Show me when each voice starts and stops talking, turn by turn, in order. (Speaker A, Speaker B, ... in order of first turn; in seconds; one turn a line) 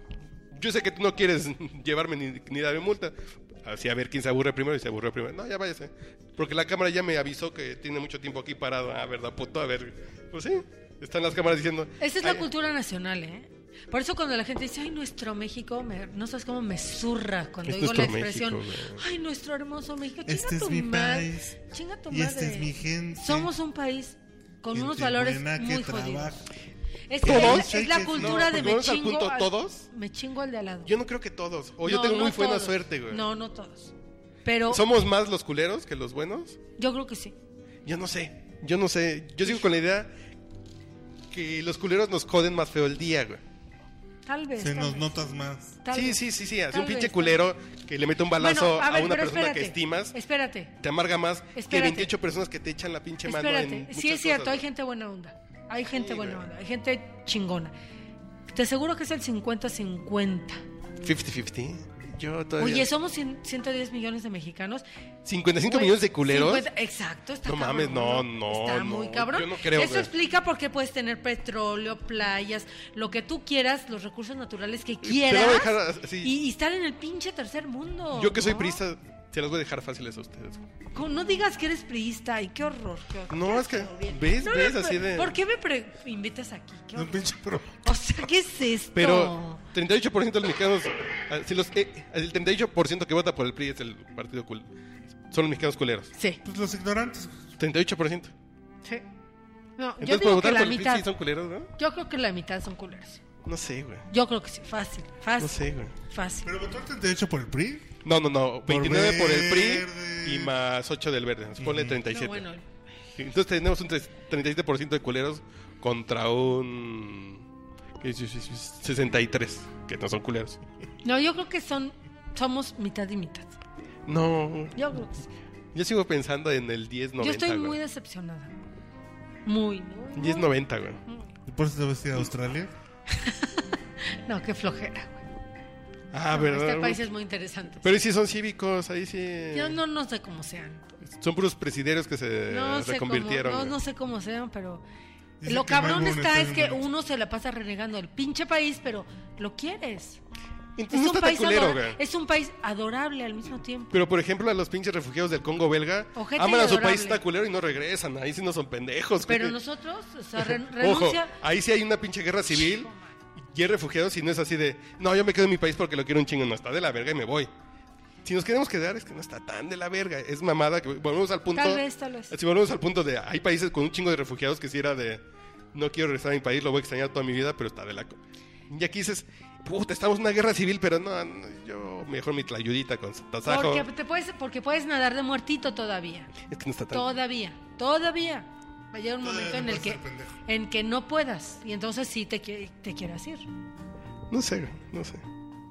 Speaker A: 0.5-12.4
Speaker B: 12.0-26.5
Speaker A: 17.6-19.0
Speaker C: 20.2-23.5
Speaker C: 24.7-26.4
Speaker B: 27.1-30.9
Speaker C: 27.2-28.5
Speaker A: 27.2-29.9
Speaker A: 30.9-33.2
Speaker B: 31.8-33.9
Speaker B: 34.4-34.8
Speaker A: 34.7-36.6
Speaker B: 36.8-37.3
Speaker A: 37.8-40.1
Speaker A: 41.3-43.4
Speaker B: 44.2-45.1
Speaker C: 44.6-45.8
Speaker B: 45.8-47.4
Speaker A: 45.9-50.1
Speaker B: 48.4-50.7
Speaker A: 50.8-54.6
Speaker B: 51.5-52.1
Speaker B: 53.2-57.7
Speaker A: 55.9-56.4
Speaker B: 58.5-60.6
Speaker A: 61.0-62.9
Speaker B: 62.6-64.8
Speaker A: 65.2-66.7
Speaker B: 65.6-78.8
Speaker A: 67.4-70.1
Speaker A: 75.0-76.3
Speaker A: 78.1-80.6
Speaker B: 80.9-89.6
Speaker A: 83.3-85.3
Speaker C: 86.9-87.8
Speaker A: 88.9-94.7
Speaker A: 95.3-96.1
Speaker B: 96.1-96.4
Speaker C: 96.4-97.4
Speaker A: 97.6-98.3
Speaker B: 99.8-101.1
Speaker A: 100.0-101.7
Speaker B: 101.8-103.2
Speaker A: 103.4-104.1
Speaker B: 104.1-106.5
Speaker A: 105.4-105.9
Speaker C: 106.4-107.9
Speaker A: 108.0-112.4
Speaker C: 108.7-110.5
Speaker C: 111.6-112.0
Speaker B: 112.1-112.7
Speaker A: 113.2-117.4
Speaker A: 118.0-120.6
Speaker B: 121.0-123.5
Speaker A: 124.1-124.8
Speaker B: 124.7-125.3
Speaker A: 125.7-127.8
Speaker B: 127.2-128.5
Speaker B: 129.4-130.5
Speaker A: 130.2-131.0
Speaker C: 131.4-132.7
Speaker B: 133.1-133.6
Speaker B: 134.2-135.2
Speaker A: 136.1-137.0
Speaker B: 136.3-137.9
Speaker A: 137.8-139.8
Speaker B: 139.5-140.9
Speaker A: 141.1-143.7
Speaker B: 142.5-144.8
Speaker C: 145.4-146.8
Speaker B: 145.4-150.2
Speaker A: 150.8-152.0
Speaker B: 150.9-153.9
Speaker A: 153.9-159.6
Speaker B: 156.1-157.2
Speaker B: 159.3-161.3
Speaker A: 160.4-162.9
Speaker A: 163.5-167.5
Speaker A: 168.2-175.2
Speaker B: 171.5-172.3
Speaker A: 175.7-178.2
Speaker A: 178.7-183.8
Speaker B: 183.4-186.3
Speaker A: 186.5-187.1
Speaker B: 186.9-193.4
Speaker C: 189.2-190.4
Speaker A: 194.3-195.2